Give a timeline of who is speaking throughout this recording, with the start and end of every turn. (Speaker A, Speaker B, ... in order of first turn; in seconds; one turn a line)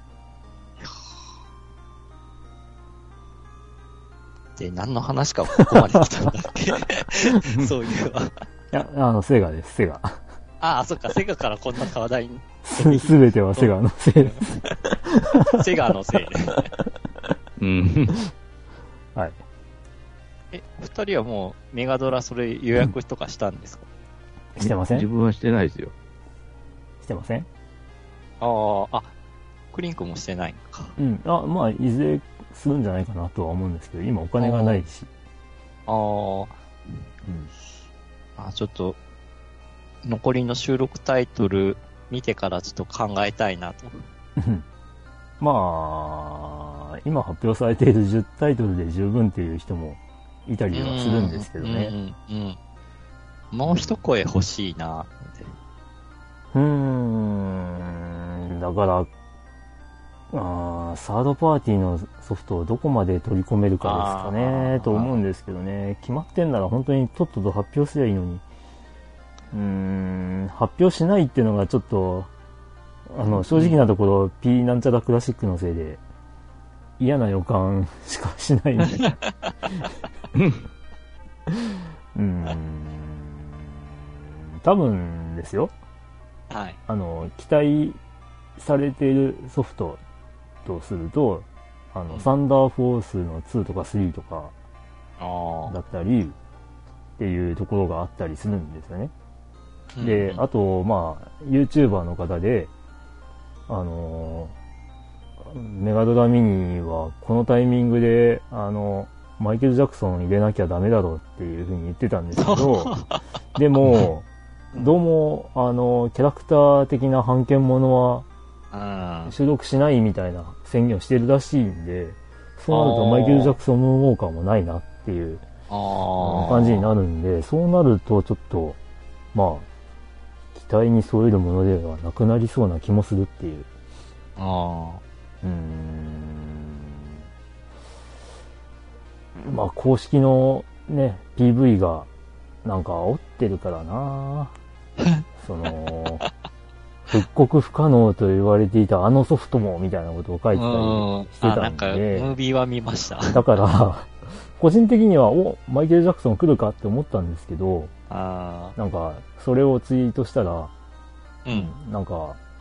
Speaker A: 0.8-1.1
Speaker A: 4.6-8.3
Speaker B: 8.7-10.2
Speaker A: 10.6-13.7
Speaker B: 12.6-15.6
Speaker A: 14.2-14.5
Speaker A: 15.5-16.7
Speaker C: 17.6-18.2
Speaker A: 20.5-23.9
Speaker B: 24.6-25.1
Speaker C: 24.6-25.9
Speaker B: 27.0-27.5
Speaker A: 28.4-29.1
Speaker A: 29.7-30.9
Speaker B: 31.0-35.1
Speaker A: 34.4-34.8
Speaker A: 35.9-36.6
Speaker B: 37.2-37.5
Speaker A: 38.4-39.0
Speaker A: 40.0-44.0
Speaker B: 44.4-44.6
Speaker B: 45.4-51.9
Speaker A: 50.7-52.6
Speaker A: 53.5-55.5
Speaker B: 53.6-54.0
Speaker B: 56.5-59.1
Speaker B: 60.3-68.4
Speaker A: 63.8-65.2
Speaker B: 69.5-72.3
Speaker B: 73.1-76.0
Speaker A: 73.5-73.8
Speaker B: 77.0-79.1
Speaker B: 82.1-83.6
Speaker B: 84.6-85.7
Speaker A: 86.5-86.8
Speaker B: 86.9-88.0
Speaker B: 88.6-90.0
Speaker B: 90.6-94.5
Speaker A: 95.2-95.8
Speaker B: 95.7-96.3
Speaker B: 97.2-99.1
Speaker A: 100.0-100.4
Speaker B: 100.0-102.7
Speaker B: 103.7-104.5
Speaker B: 105.4-112.9
Speaker A: 112.4-113.2
Speaker B: 113.5-118.2
Speaker A: 118.7-119.3
Speaker B: 119.2-125.4
Speaker A: 122.7-123.5
Speaker A: 125.7-126.9
Speaker B: 126.2-128.8
Speaker B: 129.3-129.7
Speaker B: 130.5-133.7
Speaker A: 134.4-135.0
Speaker B: 135.4-137.0
Speaker B: 139.4-142.1
Speaker B: 142.6-144.5
Speaker B: 145.4-146.2
Speaker B: 147.1-152.3
Speaker A: 150.5-153.4
Speaker B: 153.3-157.9
Speaker A: 158.1-158.7
Speaker B: 158.8-160.7
Speaker A: 161.4-161.7
Speaker B: 161.5-162.4